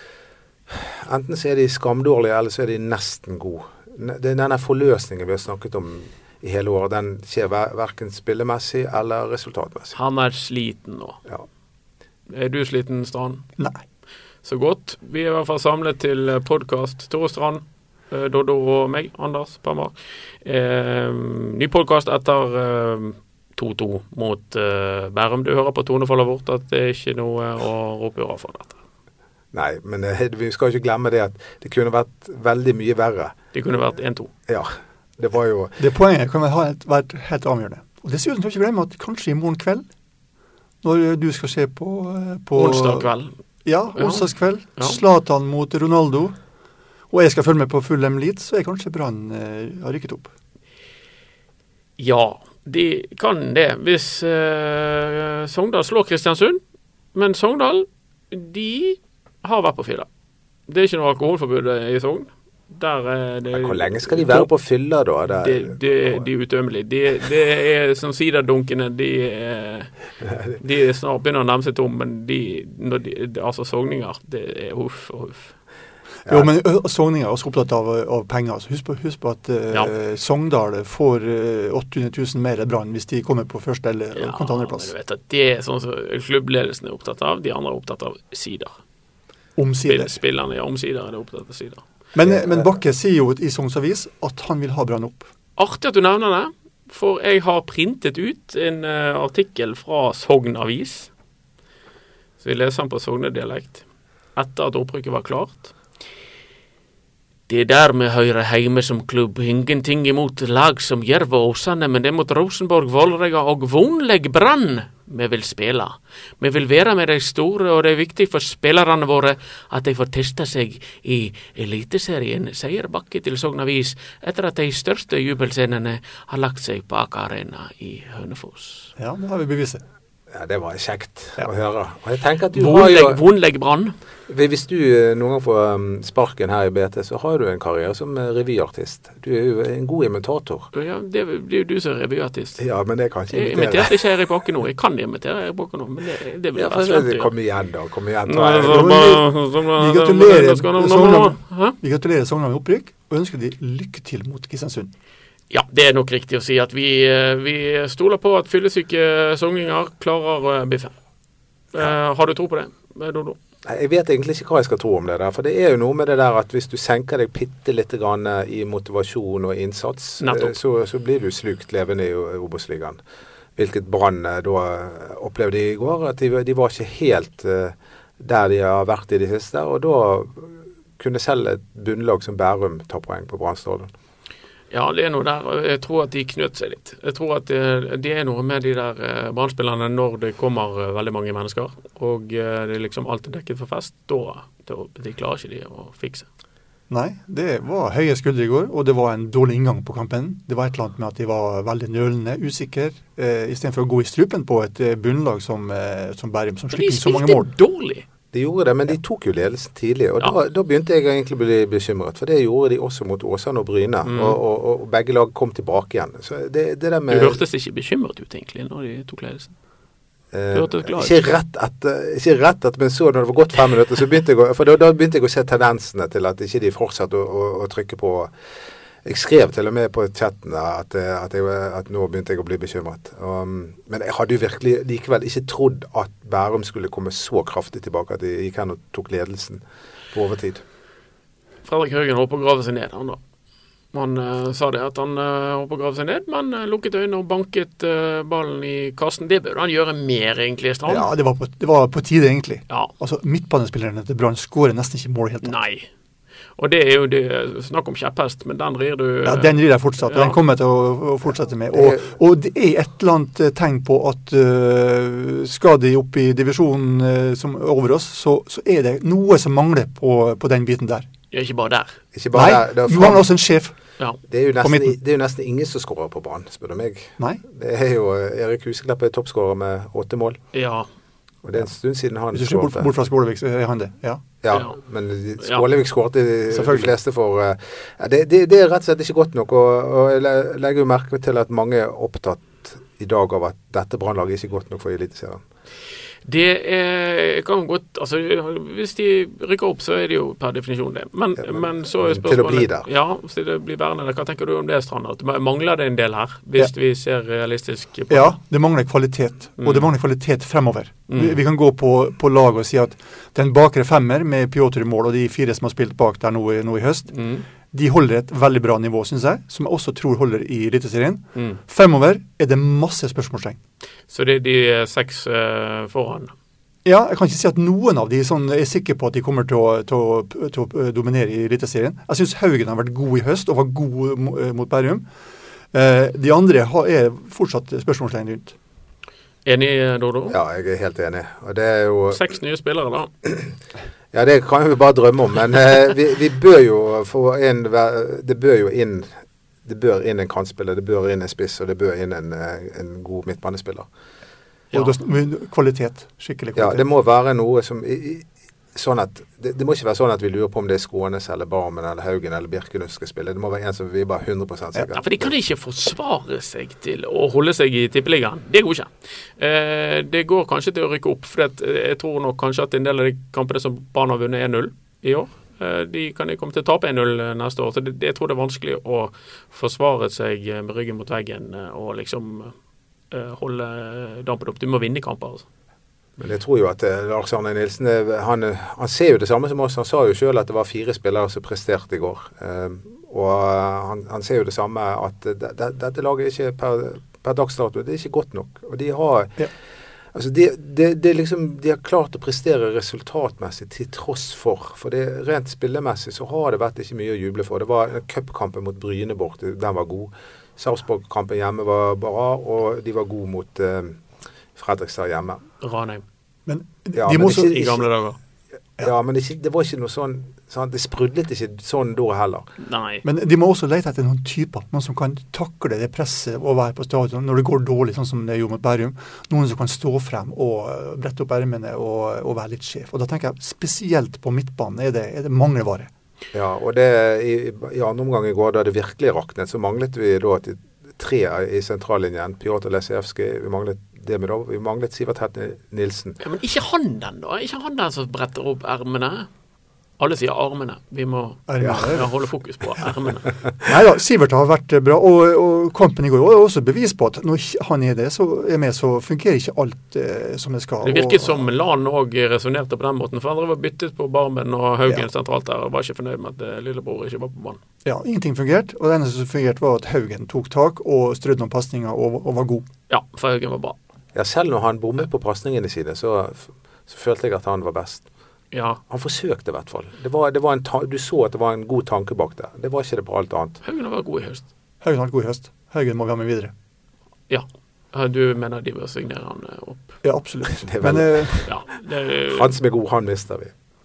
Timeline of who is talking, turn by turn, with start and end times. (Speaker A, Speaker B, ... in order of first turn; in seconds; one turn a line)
Speaker A: 0.7-9.9
Speaker B: 9.9-11.2
Speaker B: 12.3-13.4
Speaker B: 14.4-28.8
Speaker A: 29.5-33.3
Speaker B: 33.5-34.3
Speaker A: 34.5-35.8
Speaker C: 35.8-39.8
Speaker C: 40.8-43.1
Speaker B: 42.5-43.3
Speaker C: 43.6-46.3
Speaker B: 43.9-45.0
Speaker C: 47.1-50.3
Speaker B: 52.0-56.6
Speaker B: 57.1-60.1
Speaker B: 60.7-64.5
Speaker A: 63.5-66.2
Speaker B: 65.3-69.9
Speaker A: 70.3-70.6
Speaker B: 70.6-75.5
Speaker C: 76.3-84.9
Speaker B: 84.1-88.7
Speaker C: 89.6-90.2
Speaker B: 89.8-91.8
Speaker C: 92.1-95.3
Speaker A: 92.2-92.6
Speaker B: 95.6-101.1
Speaker B: 102.4-103.8
Speaker B: 104.3-105.7
Speaker B: 107.5-128.9
Speaker C: 129.0-129.8
Speaker A: 130.3-133.2
Speaker B: 132.5-133.9
Speaker A: 134.3-140.7
Speaker B: 140.7-142.6
Speaker A: 142.6-144.0
Speaker B: 143.3-147.3
Speaker A: 146.5-149.1
Speaker B: 148.2-151.8
Speaker C: 148.7-154.9
Speaker B: 155.5-160.9
Speaker B: 161.7-163.4
Speaker A: 163.7-173.0
Speaker B: 170.2-170.5
Speaker A: 173.6-183.9
Speaker B: 184.7-196.3
Speaker C: 196.9-207.5
Speaker B: 206.7-208.0
Speaker A: 208.3-217.4
Speaker B: 214.0-214.4
Speaker B: 217.1-219.5
Speaker A: 220.3-228.3
Speaker B: 220.5-221.3
Speaker A: 229.0-240.6
Speaker B: 241.6-243.2
Speaker B: 243.9-251.1
Speaker C: 250.9-255.5
Speaker B: 255.4-255.9
Speaker B: 256.6-260.4
Speaker C: 259.2-271.1
Speaker A: 261.7-262.0
Speaker B: 271.3-271.9
Speaker A: 272.1-273.3
Speaker C: 272.3-273.7
Speaker A: 274.3-280.4
Speaker C: 274.6-274.9
Speaker B: 280.5-280.9
Speaker A: 281.4-282.9
Speaker C: 282.3-284.2
Speaker A: 284.4-295.4
Speaker B: 284.5-284.8
Speaker C: 286.5-286.9
Speaker B: 296.2-308.3
Speaker A: 301.4-302.9
Speaker C: 308.1-317.1
Speaker B: 309.6-309.9
Speaker B: 311.1-311.4
Speaker B: 317.1-317.4
Speaker C: 317.7-323.6
Speaker B: 321.3-321.6
Speaker B: 324.1-326.3
Speaker C: 326.8-335.1
Speaker C: 335.7-338.5
Speaker B: 339.4-340.4
Speaker A: 340.3-342.2
Speaker B: 342.1-343.1
Speaker A: 344.1-349.1
Speaker A: 349.6-353.9
Speaker C: 354.7-356.8
Speaker A: 356.6-365.3
Speaker B: 364.9-382.5
Speaker B: 383.1-385.4
Speaker A: 386.2-399.4
Speaker A: 400.1-414.0
Speaker A: 414.6-415.4
Speaker B: 415.6-416.0
Speaker C: 416.4-417.6
Speaker A: 416.9-417.8
Speaker B: 417.3-418.2
Speaker A: 418.8-422.5
Speaker B: 422.6-423.0
Speaker C: 423.0-435.9
Speaker A: 436.3-446.2
Speaker B: 446.2-449.3
Speaker B: 450.0-453.3
Speaker C: 451.5-452.1
Speaker C: 453.6-461.4
Speaker B: 460.8-467.6
Speaker C: 467.8-472.6
Speaker B: 472.9-473.8
Speaker A: 474.1-478.0
Speaker B: 478.5-478.8
Speaker A: 478.9-483.6
Speaker B: 483.6-484.4
Speaker C: 484.8-486.5
Speaker B: 487.3-490.0
Speaker C: 490.0-491.4
Speaker A: 490.5-491.5
Speaker B: 491.4-492.5
Speaker A: 492.3-493.5